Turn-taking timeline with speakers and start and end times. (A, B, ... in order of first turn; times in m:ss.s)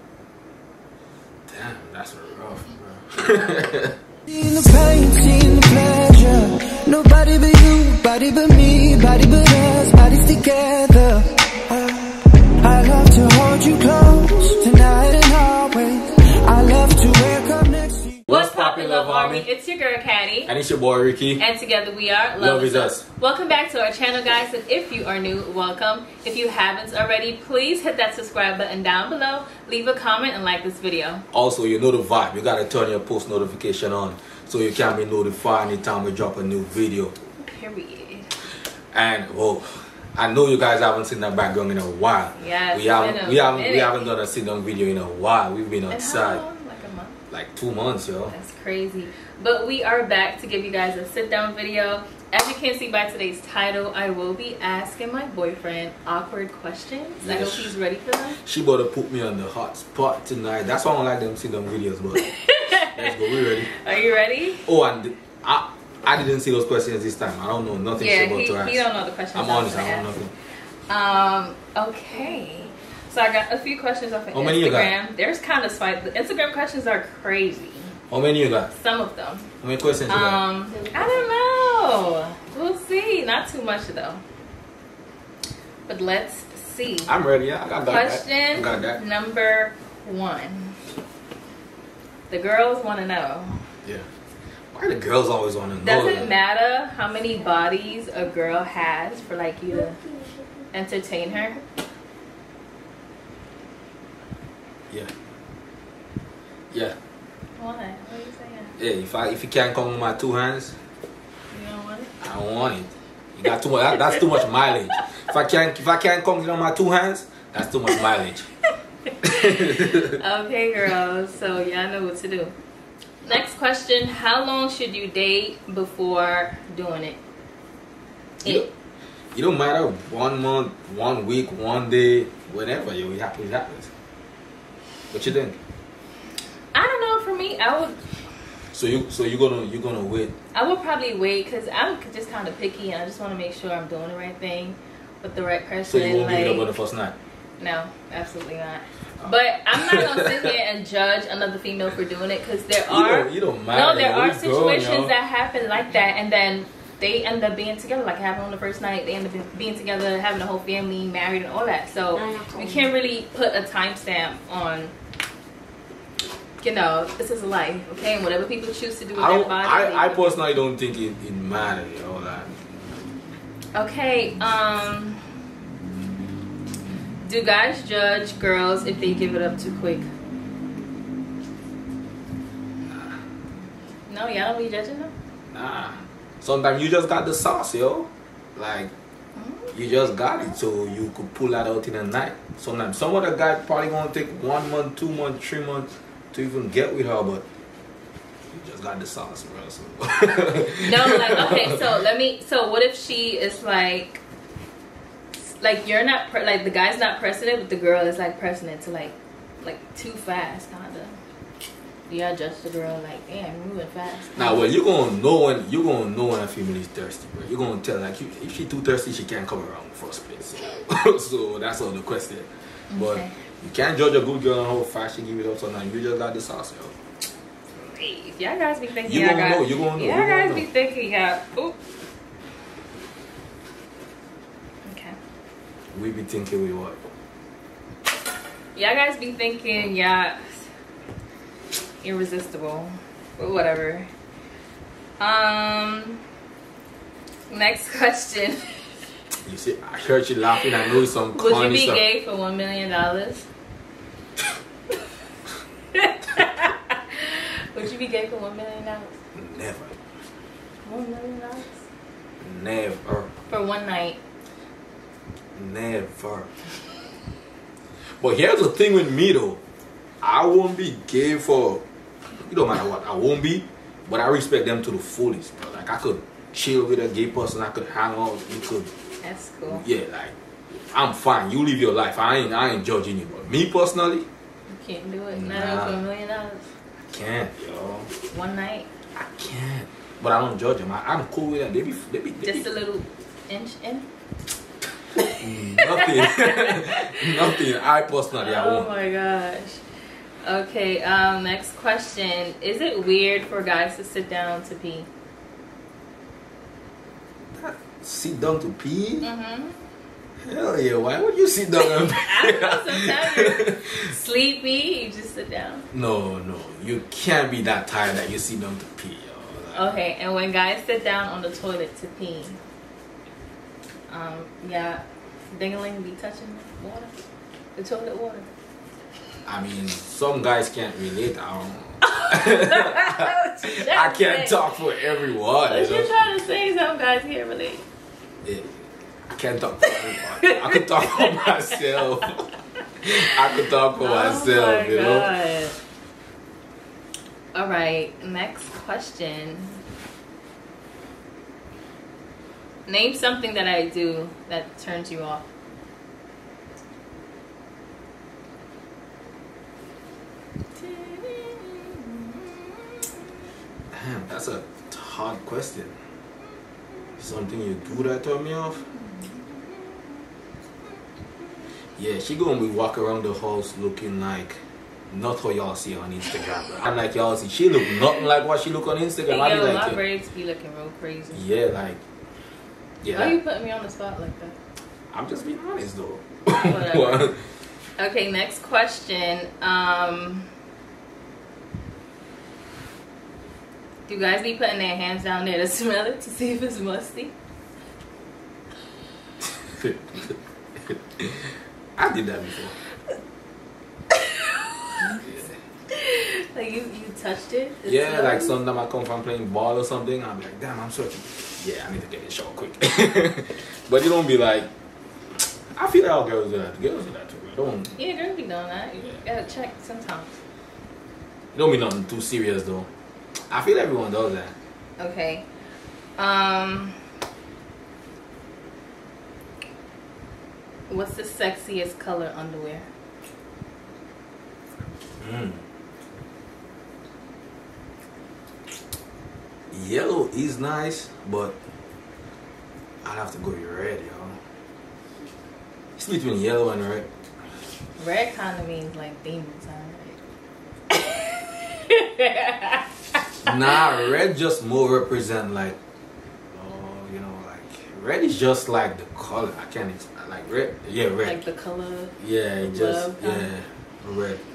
0:01.5-0:04.0 A
0:04.3-0:18.2 B
0:18.3-0:19.5 A
0:18.3-0:20.5 C
0:20.4-0:21.4 A
0:21.4-0:31.2 C
0:22.4-0:23.0 A
0:31.3-0:37.1 A
0:37.4-0:38.4 C
0:38.5-0:46.4 A
0:42.4-0:44.1 C
0:45.9-0:47.2 C
0:47.3-0:48.3 A
0:48.3-0:58.4 C
0:57.2-0:57.8 A
0:58.4-1:03.8 A
1:02.2-1:04.7 C
1:04.6-1:10.3 A
1:07.9-1:10.1 C
1:10.9-1:17.9 C
1:14.3-1:14.9 A
1:18.1-1:18.7 A
1:18.7-1:19.5 C
1:19.6-1:20.4 A
1:20.1-1:24.2 C
1:25.9-1:27.1 C
1:27.1-1:29.0 A
1:27.8-1:30.8 C
1:32.3-1:33.6 C
1:34.7-1:36.3 A
1:35.8-1:40.1 C
1:40.7-1:41.6 C
1:46.7-1:47.0 A
1:47.6-1:48.8 C
1:48.8-1:50.8 A
1:51.5-1:52.1 C
1:52.2-1:58.5 A
1:59.2-2:00.2 A
1:59.2-2:02.5 C
2:03.2-2:07.2 C
2:09.3-2:13.9 A
2:15.1-2:15.6 A
2:16.7-2:18.0 C
2:18.7-2:20.3 A
2:20.5-2:26.7 C
2:25.9-2:27.2 A
2:27.6-2:44.9 C
2:29.2-2:30.5 A
2:32.9-2:35.1 A
2:46.6-2:50.4 C
2:49.1-2:52.5 A
2:53.7-2:55.2 C
2:57.2-3:00.1 C
3:02.9-3:03.2 A
3:04.1-3:05.1 C
3:05.5-3:08.9 A
3:09.4-3:10.2 C
3:09.7-3:17.4 A
3:18.5-3:21.9 A
3:20.8-3:24.2 C
3:25.4-3:31.2 C
3:32.1-3:34.7 C
3:34.3-3:47.0 A
3:42.9-3:43.4 C
3:47.8-3:51.8 C
3:49.0-3:50.6 A
3:54.8-3:55.2 C
3:55.9-3:57.0 A
3:58.7-4:00.7 C
4:02.0-4:04.1 C
4:05.2-4:06.2 C
4:07.5-4:08.8 C
4:09.4-4:12.0 A
4:11.3-4:13.5 C
4:15.9-4:19.1 C
4:19.3-4:20.0 A
4:20.8-4:21.8 C
4:22.4-4:23.3 A
4:23.5-4:24.2 C
4:25.6-4:26.5 A
4:28.2-4:29.6 A
4:30.2-4:31.8 A
4:32.4-4:38.9 A
4:39.2-4:39.8 C
4:39.6-4:40.3 A
4:40.9-4:44.2 A
4:44.7-4:46.6 C
4:45.3-4:46.0 A
4:47.0-4:48.1 A
4:48.3-4:48.9 C
4:49.1-4:52.7 A
4:52.4-4:54.1 C
4:55.3-4:58.9 A
4:55.8-4:57.5 C
4:58.3-4:59.8 C
5:00.4-5:05.1 C
5:07.5-5:09.3 A
5:09.2-5:09.9 C
5:10.4-5:14.1 A
5:11.8-5:15.9 C
5:15.9-5:19.9 A
5:19.7-5:22.6 C
5:24.1-5:27.2 C
5:27.8-5:28.5 C
5:29.4-5:36.2 A
5:32.0-5:34.7 C
5:35.6-5:37.8 C
5:38.4-5:42.5 A
5:40.1-5:41.5 C
5:43.0-5:45.3 A
5:43.6-5:45.8 C
5:47.5-5:49.8 C
5:52.9-5:55.4 C
6:00.8-6:03.1 C
6:03.9-6:06.0 A
6:07.2-6:08.9 A
6:09.0-6:10.0 C
6:12.0-6:20.0 A
6:19.3-6:21.4 C
6:21.3-6:22.0 A
6:23.0-6:23.4 A
6:23.1-6:24.6 C
6:25.1-6:27.4 A
6:26.5-6:27.3 C
6:28.0-6:30.5 C
6:34.1-6:37.4 C
6:39.4-6:42.8 A
6:44.1-6:45.3 C
6:45.0-6:45.5 A
6:45.9-6:48.6 C
6:47.8-6:54.7 A
6:55.7-6:57.9 A
6:57.9-7:00.4 C
7:01.5-7:02.9 A
7:03.5-7:04.5 A
7:05.0-7:05.5 C
7:06.2-7:07.0 C
7:10.9-7:12.9 C
7:15.2-7:15.6 A
7:19.7-7:21.5 A
7:23.0-7:24.4 A
7:26.0-7:27.1 A
7:28.0-7:30.2 C
7:30.9-7:32.8 C
7:33.4-7:35.8 A
7:36.5-7:41.4 A
7:41.2-7:43.5 C
7:42.2-7:44.4 A